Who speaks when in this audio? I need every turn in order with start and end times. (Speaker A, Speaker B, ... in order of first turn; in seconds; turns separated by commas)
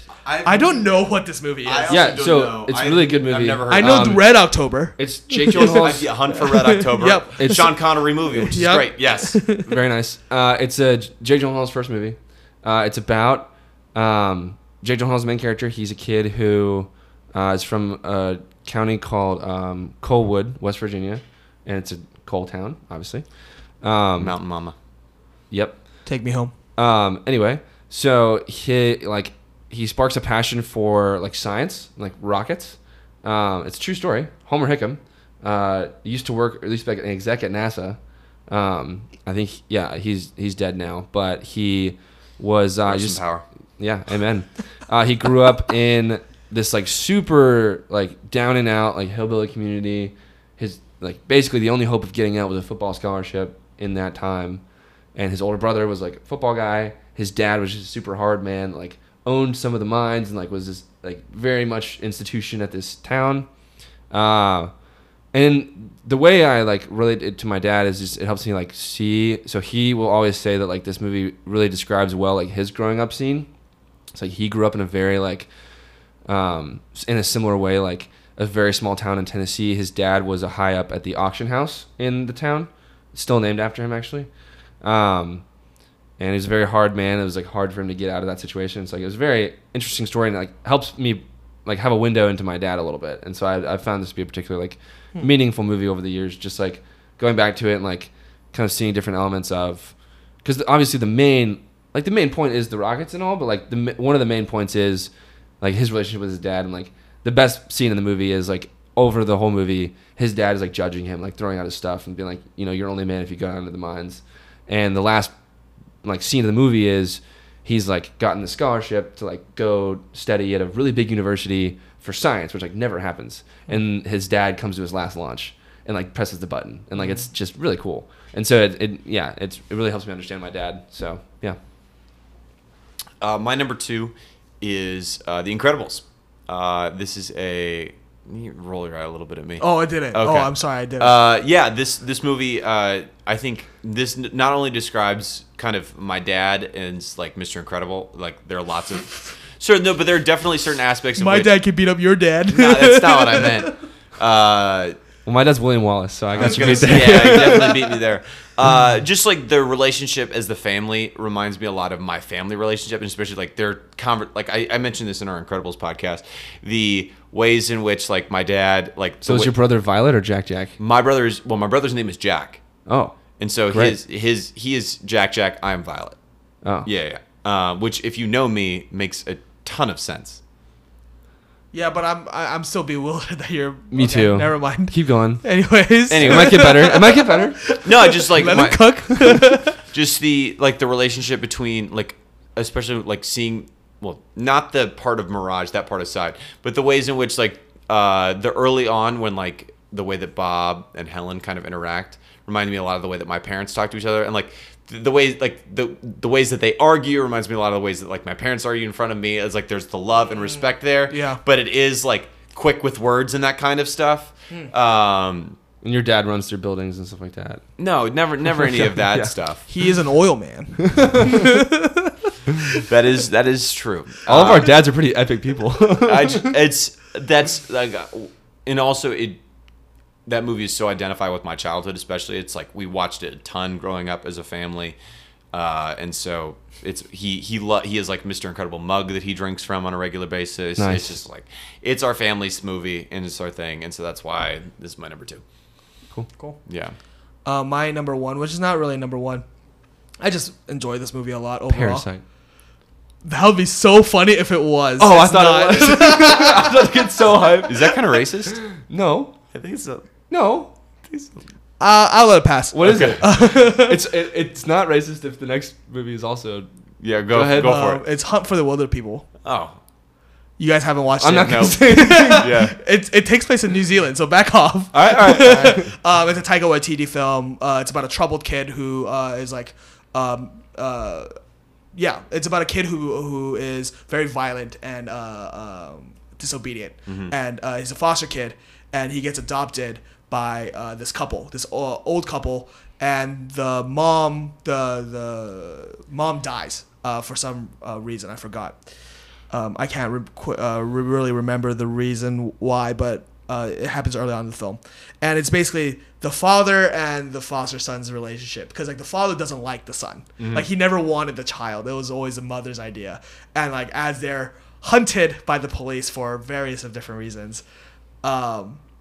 Speaker A: 0.2-0.9, Speaker B: 0.4-2.2, Speaker A: 1.6-4.2, Speaker C: 1.9-4.2, Speaker B: 3.7-9.7, Speaker C: 5.0-6.1, Speaker A: 5.5-9.4, Speaker C: 7.4-7.7, Speaker C: 9.6-23.2, Speaker C: 23.8-24.4, Speaker A: 24.2-24.7, Speaker C: 25.5-25.8, Speaker B: 26.1-26.5, Speaker C: 26.8-38.0, Speaker C: 38.5-43.2, Speaker A: 42.9-43.4, Speaker C: 43.8-54.6, Speaker C: 55.1-63.5, Speaker C: 64.1-64.7, Speaker C: 65.3-73.5, Speaker C: 74.1-75.5, Speaker C: 76.3-84.3, Speaker C: 84.8-85.4, Speaker C: 86.2-105.1, Speaker C: 105.6-115.3, Speaker C: 116.0-131.6, Speaker A: 133.2-151.5, Speaker B: 139.6-141.2, Speaker B: 151.2-153.7, Speaker A: 152.5-154.9, Speaker C: 155.2-157.8, Speaker A: 156.3-169.5, Speaker B: 156.4-157.8, Speaker C: 169.2-170.7, Speaker A: 170.8-172.6, Speaker C: 172.9-173.2, Speaker A: 173.4-176.2, Speaker C: 176.6-176.9, Speaker A: 176.8-180.4, Speaker B: 181.7-189.8, Speaker C: 183.9-185.4, Speaker A: 186.1-186.8, Speaker C: 186.2-187.6, Speaker A: 187.8-215.6, Speaker B: 211.1-211.4, Speaker C: 215.8-217.6, Speaker A: 217.8-219.7, Speaker C: 218.6-219.3, Speaker B: 219.7-222.1, Speaker C: 220.8-221.4, Speaker A: 222.8-224.7, Speaker C: 224.3-226.5, Speaker A: 226.0-229.4, Speaker A: 230.2-235.0, Speaker A: 235.5-245.4, Speaker C: 240.8-241.2, Speaker A: 246.7-246.9, Speaker B: 247.4-249.4, Speaker B: 250.2-252.1, Speaker C: 251.7-252.2, Speaker B: 253.2-256.8, Speaker C: 255.0-258.0, Speaker A: 257.6-258.6, Speaker C: 258.8-259.4, Speaker A: 259.5-260.1, Speaker C: 260.3-260.7, Speaker A: 261.1-261.4, Speaker B: 261.8-264.0, Speaker C: 262.7-266.7, Speaker A: 262.8-263.2, Speaker A: 267.0-268.0, Speaker C: 267.3-267.8, Speaker B: 267.5-269.3, Speaker A: 269.4-269.8, Speaker B: 270.6-281.3, Speaker C: 271.2-272.6, Speaker A: 271.4-272.8, Speaker C: 274.9-275.9, Speaker B: 281.9-298.8, Speaker A: 287.1-287.3, Speaker B: 299.5-317.6, Speaker A: 310.4-310.7, Speaker B: 318.2-318.8